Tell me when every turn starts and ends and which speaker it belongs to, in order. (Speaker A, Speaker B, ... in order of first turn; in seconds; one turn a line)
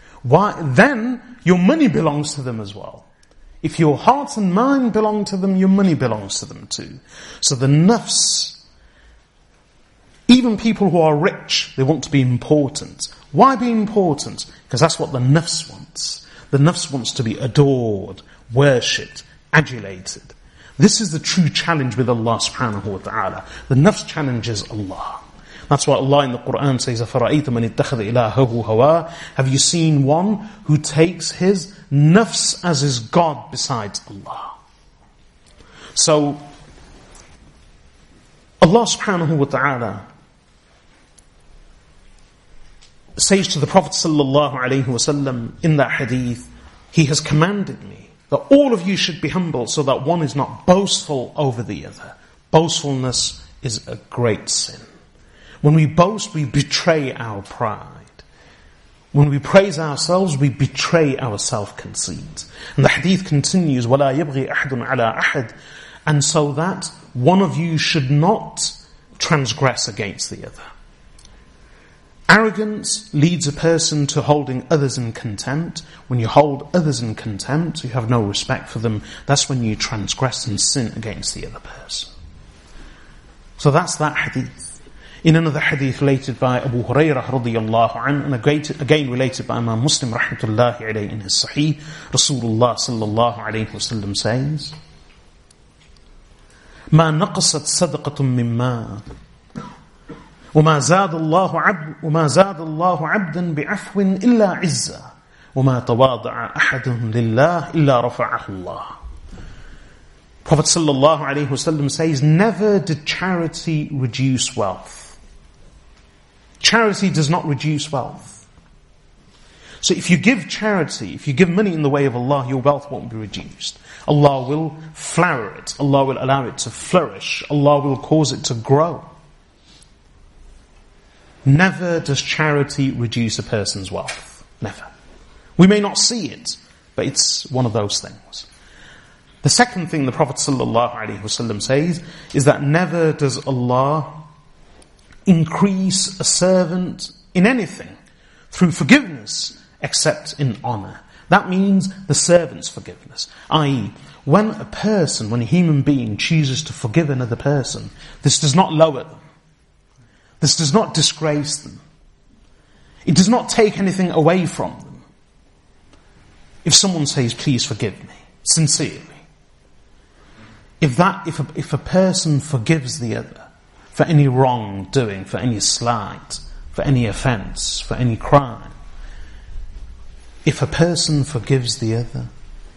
Speaker A: 0.2-3.1
Speaker A: 3.6-8.6
Speaker A: 10.3-34.6
Speaker A: 36.0-36.4
Speaker A: 38.6-40.0
Speaker A: 43.2-54.9
Speaker A: 55.6-58.2
Speaker A: 59.1-65.5
Speaker A: 66.1-70.7
Speaker A: 72.3-82.1
Speaker A: 83.6-84.7
Speaker A: 85.2-94.7
Speaker A: 96.9-99.0
Speaker A: 100.5-109.0
Speaker A: 110.5-115.2
Speaker A: 116.6-118.4
Speaker A: 119.8-129.1
Speaker A: 131.4-134.9
Speaker A: 135.6-138.5
Speaker A: 139.4-144.2
Speaker A: 145.3-147.9
Speaker A: 148.5-159.2
Speaker A: 160.4-161.8
Speaker A: 163.1-165.0
Speaker A: 166.6-169.2
Speaker A: 170.8-178.7
Speaker A: 180.4-182.3